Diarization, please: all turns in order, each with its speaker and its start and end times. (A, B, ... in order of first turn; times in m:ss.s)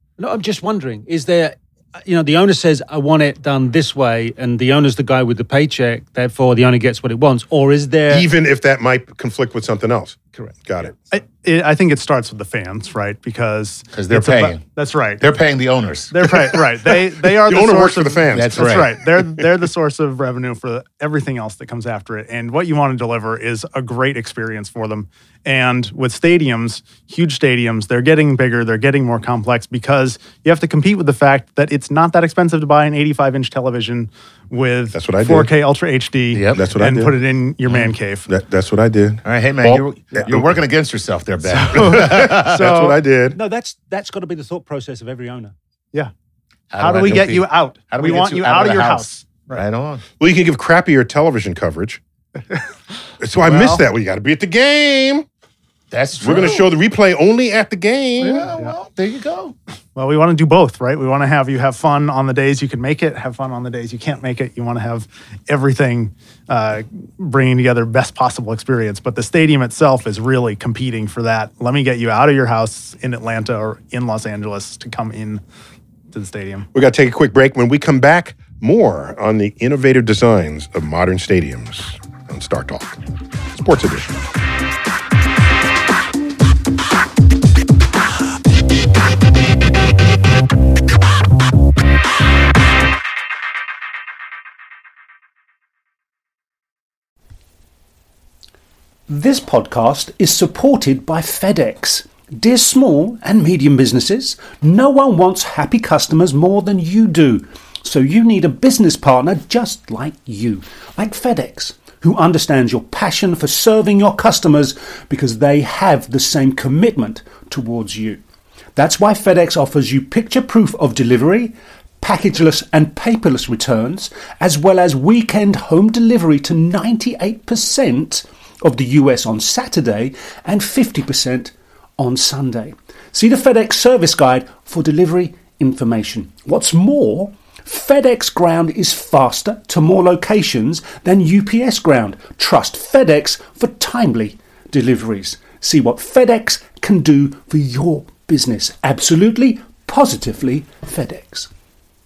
0:00.2-0:08.3 A
0:08.1-0:10.9 B
0:11.1-0:15.3 C
0:13.9-0:14.6 D
0:15.2-0:16.1 D
0:16.1-0:38.3 C
0:16.9-0:19.4 B
0:18.3-0:18.9 D
0:34.9-0:35.5 B
0:36.3-0:36.6 D
0:36.6-0:37.2 B
0:37.7-0:37.9 D
0:38.3-0:40.6 B
0:39.2-0:42.6 D
0:41.5-0:43.0 C
0:41.7-0:43.4 B
0:43.3-0:45.5 A
0:46.7-0:50.0 D
0:46.8-0:49.6 C
0:50.2-0:52.0 B
0:53.2-0:55.3 B
0:53.4-0:53.8 C
0:55.9-0:56.7 D
0:56.2-0:58.5 B
0:58.2-0:59.6 D
1:00.0-1:15.4 C
1:16.1-1:16.7 C
1:16.7-1:23.0 B
1:23.5-1:24.2 B
1:39.1-1:58.2 A
1:58.8-2:31.5 A